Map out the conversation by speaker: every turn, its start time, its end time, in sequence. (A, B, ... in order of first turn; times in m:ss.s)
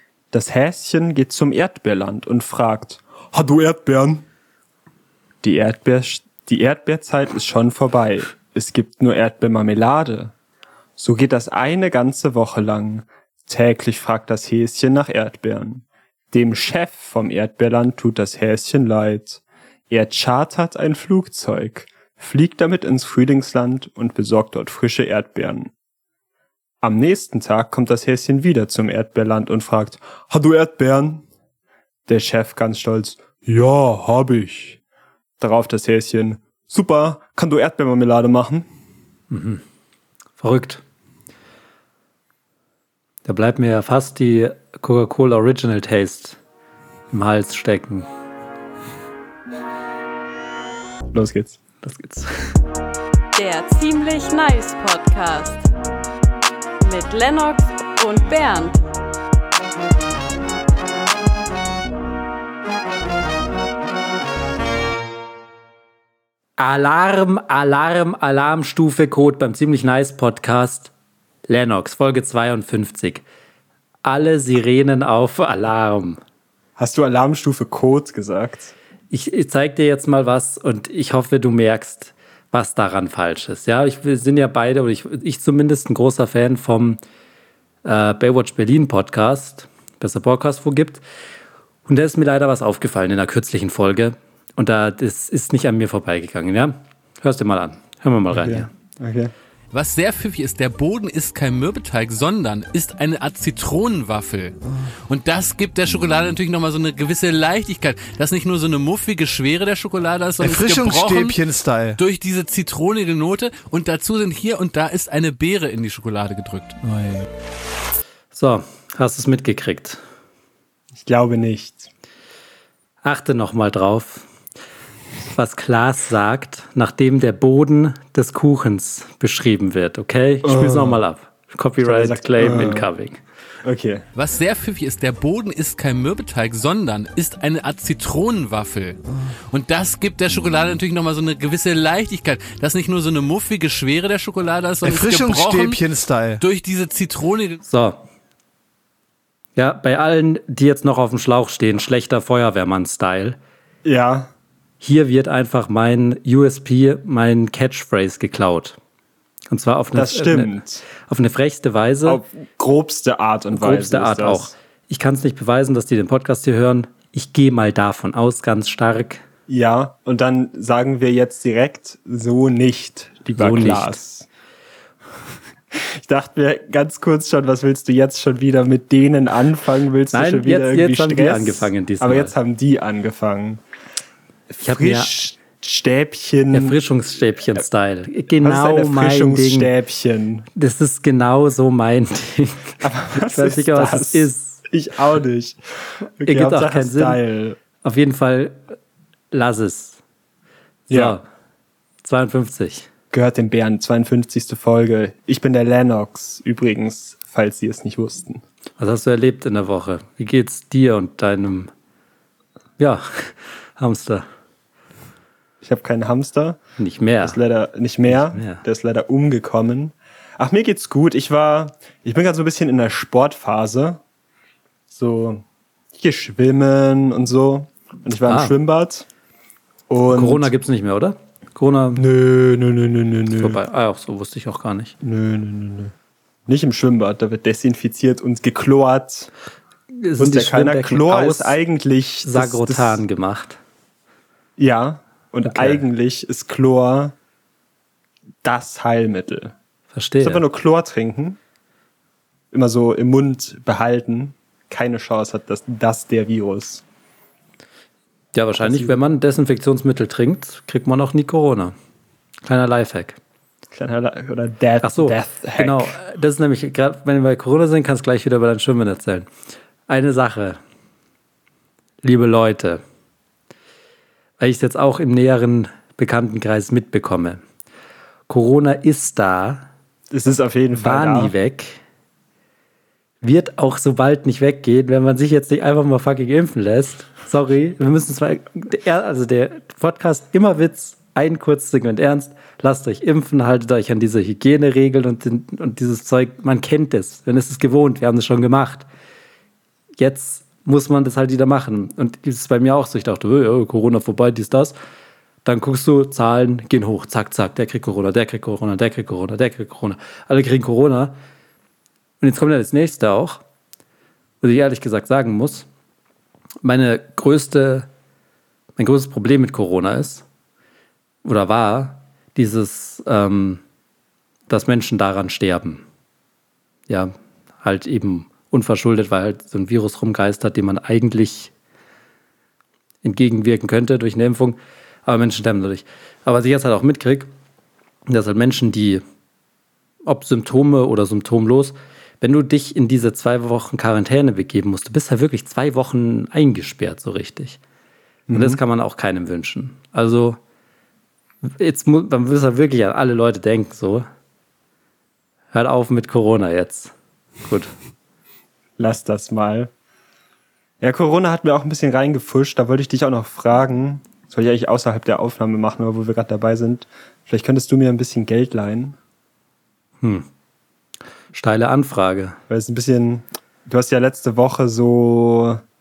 0:00.3-0:04.3 A
0:05.4-0:10.3 A
0:11.0-0:25.7 A
0:26.8-0:31.2 A
0:32.1-0:34.8 A
0:35.4-0:38.7 A
0:39.3-0:39.6 B
0:40.4-0:40.8 B
0:43.2-0:46.4 B
0:47.1-0:48.1 B
0:51.1-0:51.6 A
0:51.8-0:52.6 B
0:53.4-0:55.7 C
0:56.8-0:58.8 C
1:06.6-1:10.9 B
1:11.5-1:13.2 B
1:14.0-1:16.2 B
1:16.8-1:18.7 A
1:19.1-1:27.0 B
1:27.8-1:31.0 B
1:31.9-1:38.7 B
1:38.3-1:39.3 A
1:39.7-1:44.6 D
1:45.1-1:51.4 D
1:50.4-1:52.0 E
1:52.0-1:56.8 D
1:58.3-2:00.0 B
2:01.0-2:01.9 A
2:03.0-2:04.3 B
2:05.3-2:13.2 B
2:10.4-2:11.0 A
2:11.8-2:12.9 A
2:13.6-2:14.0 A
2:14.2-2:25.8 D
2:24.8-2:26.4 E
2:26.4-2:27.6 D
2:27.6-2:28.0 B
2:29.6-2:33.4 B
2:33.8-2:34.3 A
2:34.8-2:38.8 B
2:39.5-2:42.2 B
2:39.9-2:40.8 A
2:42.0-2:44.5 A
2:43.5-2:49.2 B
2:49.5-2:54.3 A
2:53.4-2:54.0 B
2:55.7-3:03.6 A
3:00.1-3:02.3 B
3:04.5-3:06.8 A
3:04.6-3:05.2 B
3:06.5-3:09.7 B
3:08.4-3:10.5 A
3:10.6-3:14.6 B
3:12.8-3:15.6 A
3:16.2-3:17.6 A
3:16.2-3:17.2 B
3:17.8-3:18.6 B
3:19.3-3:20.0 B
3:20.9-3:21.2 A
3:20.9-3:21.2 B
3:22.0-3:22.9 B
3:23.1-3:28.4 A
3:28.8-3:31.7 B
3:32.8-3:34.3 B
3:35.6-3:36.6 A
3:36.8-3:37.4 B
3:37.2-3:44.0 A
3:38.0-3:38.6 B
3:44.9-3:45.4 A
3:46.0-3:49.1 A
3:48.3-3:48.5 B
3:49.9-3:50.5 A
3:50.1-3:52.0 B
3:52.0-3:53.6 A
3:53.3-3:55.0 B
3:55.0-3:55.9 A
3:56.5-3:59.3 A
3:59.9-4:01.6 B
4:00.2-4:03.0 A
4:02.2-4:03.6 B
4:04.6-4:07.1 A
4:05.4-4:05.8 B
4:08.4-4:09.5 A
4:09.9-4:10.4 B
4:10.2-4:11.4 A
4:12.5-4:16.8 A
4:18.3-4:21.7 B
4:18.6-4:19.0 A
4:22.4-4:23.2 B
4:23.7-4:26.0 A
4:24.8-4:29.3 B
4:29.9-4:30.6 B
4:32.0-4:32.8 B
4:34.4-4:37.4 B
4:38.3-4:39.7 B
4:40.1-4:41.3 A
4:40.8-4:41.8 B
4:43.2-4:58.9 B
5:00.0-5:04.8 B
5:05.4-5:11.2 B
5:12.2-5:13.4 B
5:14.4-5:15.7 B
5:16.6-5:17.9 B
5:18.8-5:20.2 B
5:21.2-5:23.6 B
5:24.5-5:25.8 B
5:26.9-5:31.5 B
5:33.0-5:37.3 B
5:38.1-5:39.0 B
5:40.0-5:47.6 B
5:48.3-5:48.6 A
5:48.3-5:50.4 B
5:51.4-5:54.1 B
5:55.5-5:56.9 B
5:57.4-5:57.7 B
5:58.8-5:59.7 A
6:00.8-6:09.0 A
6:10.0-6:10.3 B
6:11.3-6:12.4 B
6:12.5-6:15.6 A